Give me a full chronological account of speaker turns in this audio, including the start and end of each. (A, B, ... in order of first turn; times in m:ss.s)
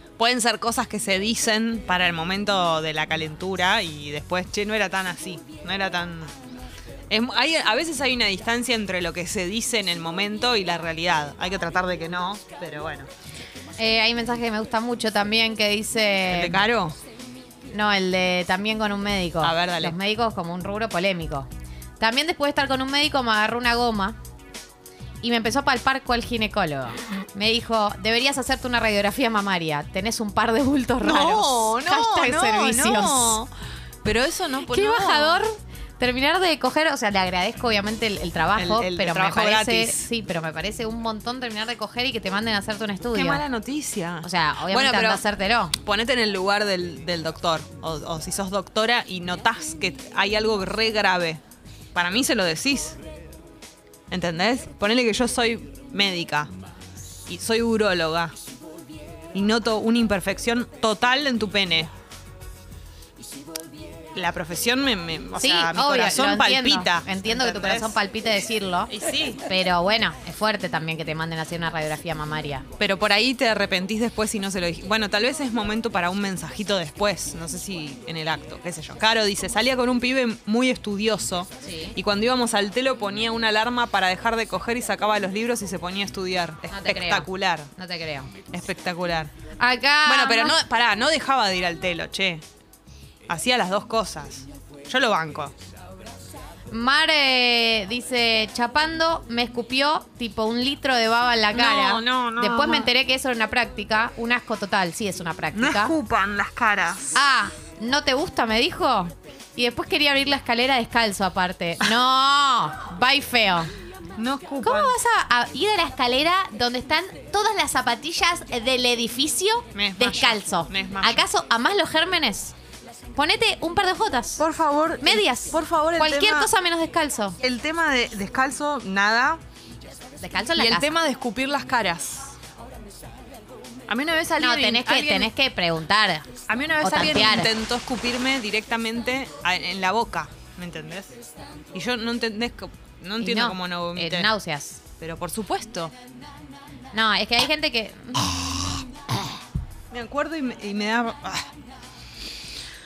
0:00.2-0:06.3 A
0:07.1-0:13.1 A
0:13.8-0:16.6 B
0:16.3-0:17.0 A
0:17.7-0:21.5 B
0:19.4-0:20.0 A
0:22.0-0:24.2 B
0:25.2-0:33.4 B
0:31.0-0:33.5 A
0:34.0-0:35.4 A
0:34.7-0:43.4 B
0:38.6-0:40.0 A
0:43.1-0:45.2 A
0:44.2-0:45.8 B
0:45.8-0:51.4 A
0:52.0-0:53.0 A
0:54.1-0:56.5 A
0:57.3-0:58.3 A
0:59.3-1:01.9 A
1:04.2-1:08.0 A
1:05.4-1:08.9 B
1:08.9-1:09.4 A
1:09.5-1:12.7 B
1:12.8-1:27.7 A
1:21.6-1:22.0 B
1:26.7-1:28.3 B
1:28.5-1:29.3 A
1:29.6-1:30.6 B
1:30.0-1:32.4 A
1:33.3-1:35.5 A
1:36.7-1:46.0 B
1:41.5-1:42.9 A
1:45.5-1:47.2 A
1:47.1-1:53.7 B
1:54.2-1:54.9 A
1:54.6-2:02.5 B
1:59.7-2:01.2 A
2:03.2-2:04.4 B
2:04.4-2:06.5 A
2:05.0-2:07.4 B
2:07.4-2:09.4 A
2:10.2-2:10.9 B
2:10.6-2:12.4 A
2:13.9-2:15.3 A
2:14.4-2:17.5 B
2:16.5-2:21.1 A
2:21.7-2:24.3 A
2:23.2-2:24.8 B
2:25.0-2:25.9 A
2:26.9-2:28.5 B
2:29.9-2:31.5 A